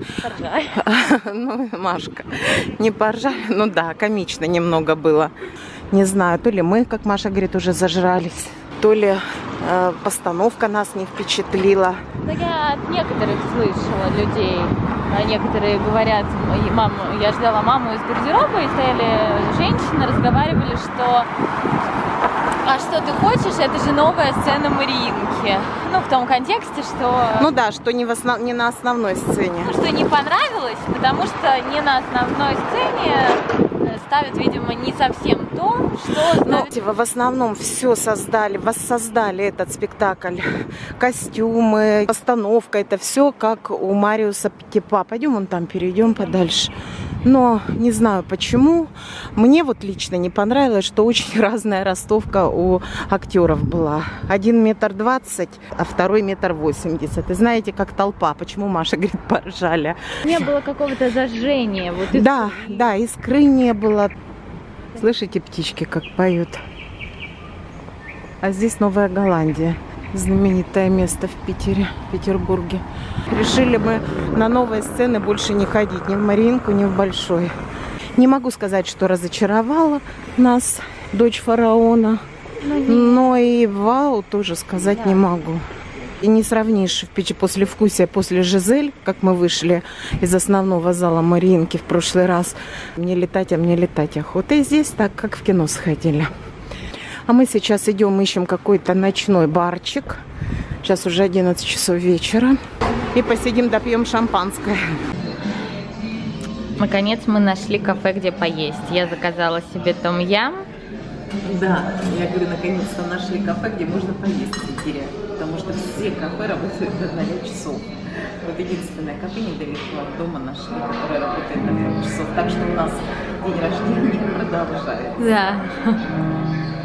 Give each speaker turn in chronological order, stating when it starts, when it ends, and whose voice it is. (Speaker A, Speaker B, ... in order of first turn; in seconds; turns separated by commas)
Speaker A: 0.2-0.8, Speaker B: 0.7-5.3, Speaker B: 5.9-12.1, Speaker A: 12.2-21.3, Speaker A: 22.6-27.5, Speaker B: 27.4-29.7, Speaker A: 29.6-36.7, Speaker B: 36.4-40.4, Speaker B: 41.0-60.5, Speaker A: 60.2-62.9, Speaker B: 62.1-64.1, Speaker B: 64.9-66.6, Speaker B: 68.4-77.5, Speaker B: 78.2-82.2, Speaker A: 82.6-83.3, Speaker B: 82.8-85.7, Speaker B: 86.2-96.3, Speaker B: 97.3-100.2, Speaker B: 100.8-102.6, Speaker B: 103.1-104.8, Speaker A: 106.8-110.7, Speaker B: 111.4-117.9, Speaker B: 118.4-125.3, Speaker A: 125.2-126.0